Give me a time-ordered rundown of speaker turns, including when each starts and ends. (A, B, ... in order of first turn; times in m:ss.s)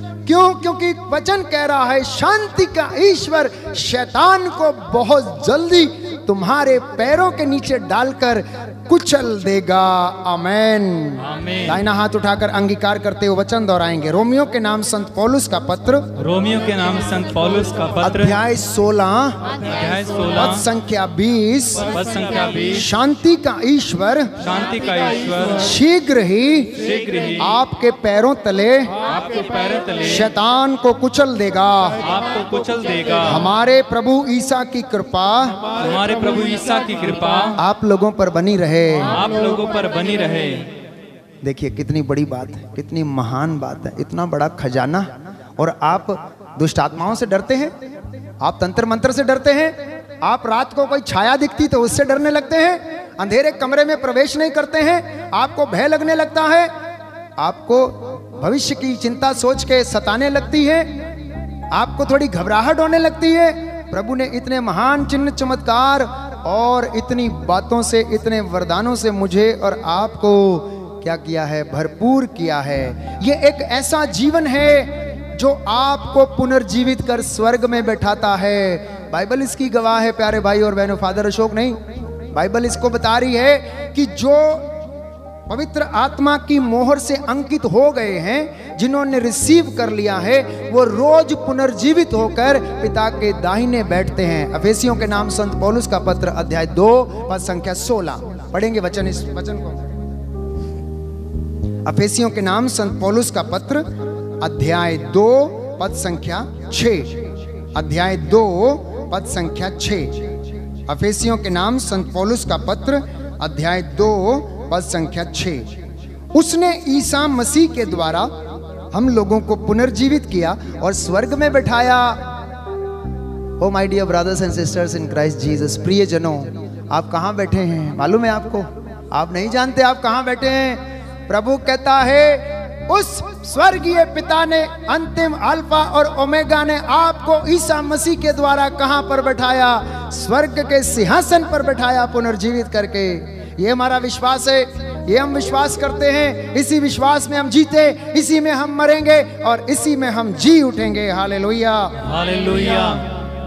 0:00.2-0:16.1 A
0:11.2-0:11.8 B
0:16.2-0:18.4 B
0:18.0-0:19.5 A
0:19.6-0:20.7 B
0:20.2-0:22.0 A
0:21.8-0:22.8 B
0:22.7-0:24.3 A
0:24.4-0:25.7 B
0:25.6-0:28.9 A
0:26.7-0:27.5 B
0:29.0-0:30.3 B
0:30.0-0:32.0 A
0:32.0-0:33.5 B
0:33.2-0:35.7 A
0:35.7-0:37.6 B
0:37.6-0:39.2 A
0:39.1-0:40.7 B
0:41.4-0:47.7 A
0:48.4-0:56.7 A
0:57.4-1:01.0 A
1:01.7-1:21.8 A
1:22.3-1:24.8 A
1:25.5-1:39.8 A
1:41.8-1:50.2 A
1:50.9-1:55.7 A
1:56.3-1:58.4 A
1:58.9-2:02.3 A
2:03.6-2:32.0 A
2:32.0-2:33.1 B